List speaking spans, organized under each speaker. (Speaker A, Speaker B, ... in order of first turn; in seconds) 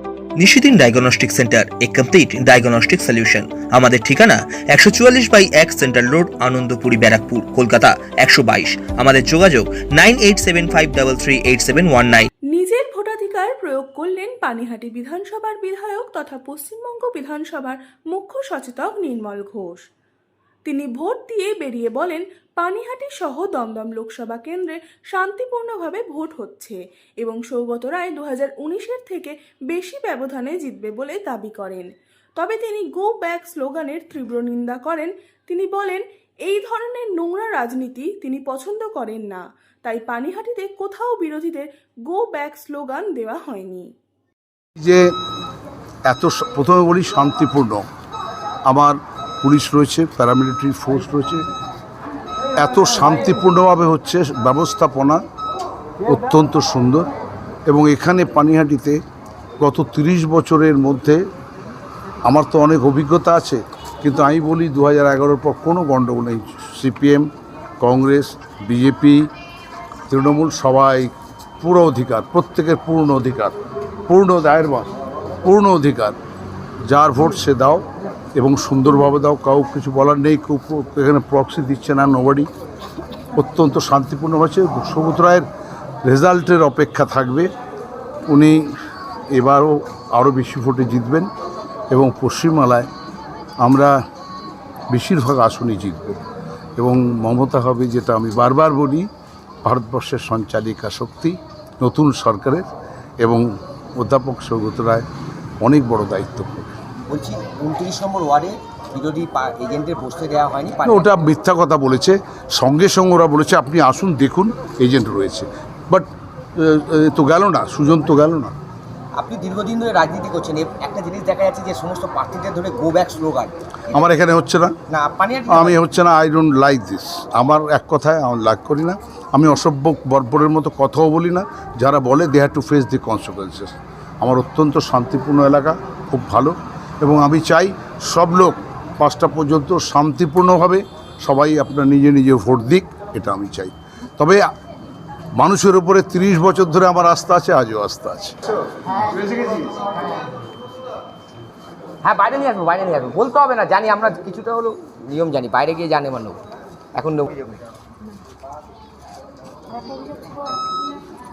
Speaker A: 0.4-12.3
Speaker B: 12.5-19.8, 20.6-43.9
Speaker C: 44.8-45.1, 46.1-47.8, 48.7-51.5, 52.6-55.2, 56.0-57.1, 57.7-59.0, 59.6-61.2, 62.2-67.3, 67.8-69.3, 70.1-73.5, 74.1-74.9, 75.4-76.2, 76.8-77.8, 78.3-82.5, 83.3-85.5, 86.0-87.5, 88.3-88.6, 89.3-91.3, 91.9-92.9, 93.6-94.0, 94.9-96.2, 96.8-99.0, 99.6-102.7, 104.0-105.0, 105.6-106.7, 110.8-118.5, 123.9-124.8, 125.5-144.5, 145.3-148.3
Speaker D: 107.1-111.1, 119.1-124.1, 124.9-125.8, 152.0-156.4, 156.9-157.6